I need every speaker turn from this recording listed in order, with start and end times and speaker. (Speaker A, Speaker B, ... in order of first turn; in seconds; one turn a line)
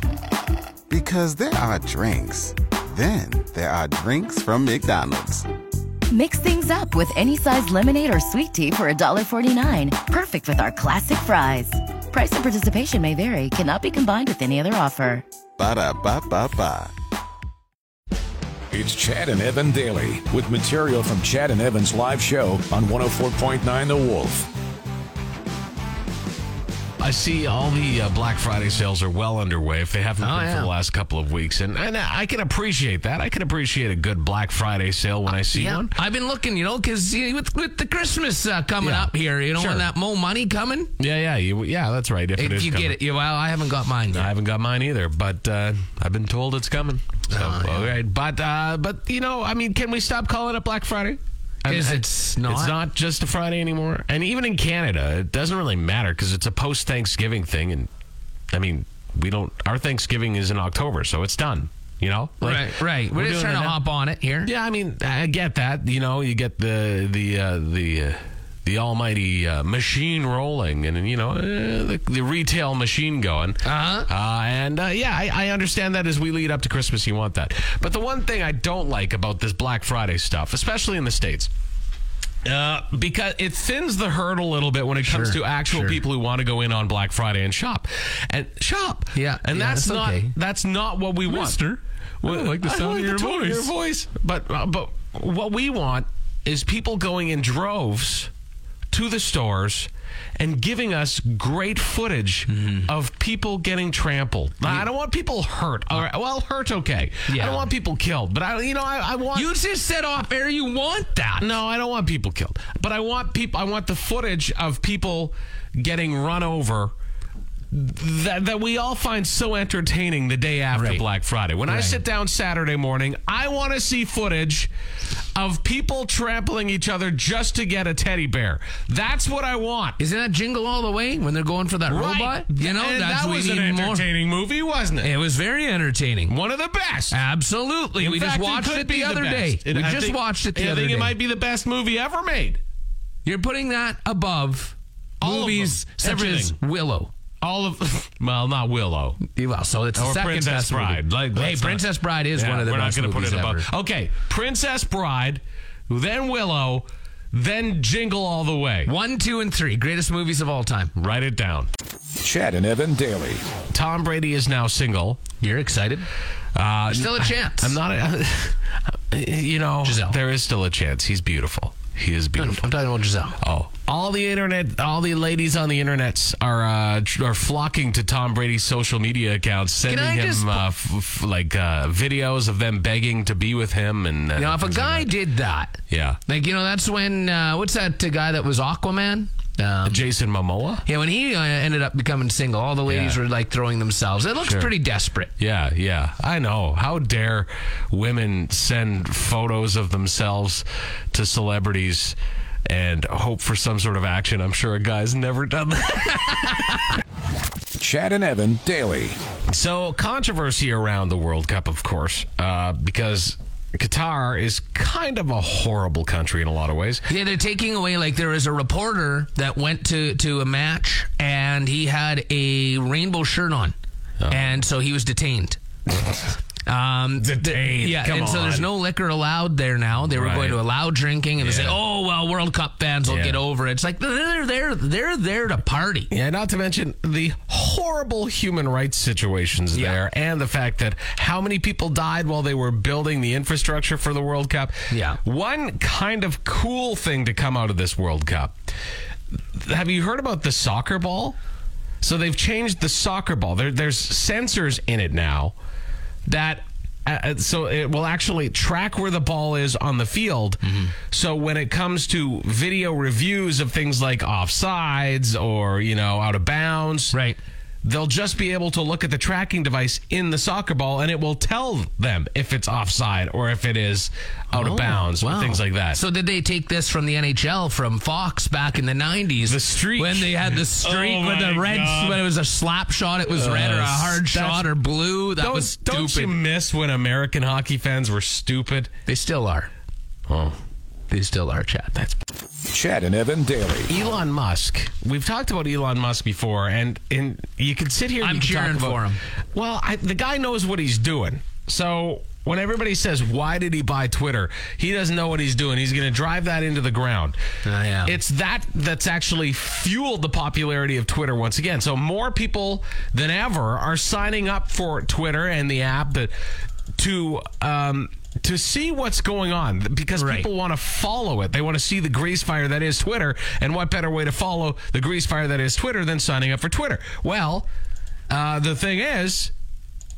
Speaker A: 0.9-5.5
Speaker B: 6.1-15.2
Speaker A: 15.6-16.9
Speaker C: 18.7-24.5
Speaker D: 27.0-36.0
Speaker E: 30.2-30.7
Speaker E: 35.4-40.9
Speaker D: 38.8-39.9
Speaker D: 41.0-43.0
Speaker E: 42.4-44.3
Speaker D: 44.1-57.9
Speaker E: 47.3-48.0
Speaker E: 51.7-52.8
Speaker D: 58.5-63.8
Speaker E: 62.4-64.5
Speaker D: 64.4-81.5
Speaker E: 73.6-74.1
Speaker D: 82.5-91.6
Speaker E: 85.0-86.0
Speaker E: 89.1-90.3
Speaker E: 91.2-93.7
Speaker D: 92.2-98.3
Speaker D: 98.9-109.5
Speaker E: 102.5-102.9
Speaker E: 107.3-107.7
Speaker E: 109.3-111.5
Speaker D: 111.4-116.9
Speaker D: 117.7-124.7
Speaker E: 120.7-121.0
Speaker E: 121.7-122.0
Speaker D: 125.3-130.0
Speaker E: 130.0-134.1
Speaker D: 131.9-135.1
Speaker E: 135.0-136.4
Speaker D: 136.3-137.2
Speaker E: 137.1-141.2
Speaker D: 138.0-142.6
Speaker E: 143.2-147.1
Speaker D: 145.2-146.6
Speaker D: 147.4-149.2
Speaker E: 149.2-153.7
Speaker D: 150.0-158.9
Speaker E: 158.8-160.9
Speaker D: 161.0-161.7
Speaker C: 162.2-163.4
Speaker D: 163.7-165.2
Speaker E: 165.4-166.1
Speaker D: 166.6-172.7
Speaker E: 166.9-167.8
Speaker E: 169.8-170.2
Speaker E: 172.4-173.4
Speaker D: 173.4-185.1
Speaker E: 179.9-180.6
Speaker E: 184.3-190.0
Speaker D: 185.9-186.2
Speaker D: 189.8-190.8
Speaker E: 190.8-195.3
Speaker D: 192.9-193.2
Speaker D: 194.4-194.7
Speaker D: 195.4-206.8
Speaker C: 207.8-209.2
Speaker D: 209.5-217.1
Speaker E: 217.1-223.8
Speaker D: 224.2-224.6
Speaker E: 224.3-225.6
Speaker D: 225.9-226.3
Speaker E: 226.7-236.1
Speaker D: 227.2-228.7
Speaker D: 230.0-230.6
Speaker D: 231.4-231.8
Speaker D: 233.1-233.4
Speaker D: 236.1-248.6
Speaker E: 239.7-240.0
Speaker E: 244.9-245.2
Speaker D: 249.6-251.4
Speaker D: 252.0-255.6
Speaker D: 256.3-267.2
Speaker E: 260.6-260.9
Speaker E: 267.1-267.4
Speaker D: 267.8-276.0
Speaker E: 274.5-286.4
Speaker D: 279.4-282.2
Speaker D: 283.3-284.7
Speaker D: 285.4-288.9
Speaker E: 289.1-289.7
Speaker D: 290.3-290.6
Speaker E: 291.1-291.9
Speaker C: 292.7-293.9
Speaker D: 293.9-307.4
Speaker E: 298.2-299.2
Speaker E: 307.6-308.2
Speaker D: 308.1-316.3
Speaker D: 317.0-327.7
Speaker E: 320.1-320.5
Speaker D: 328.3-329.5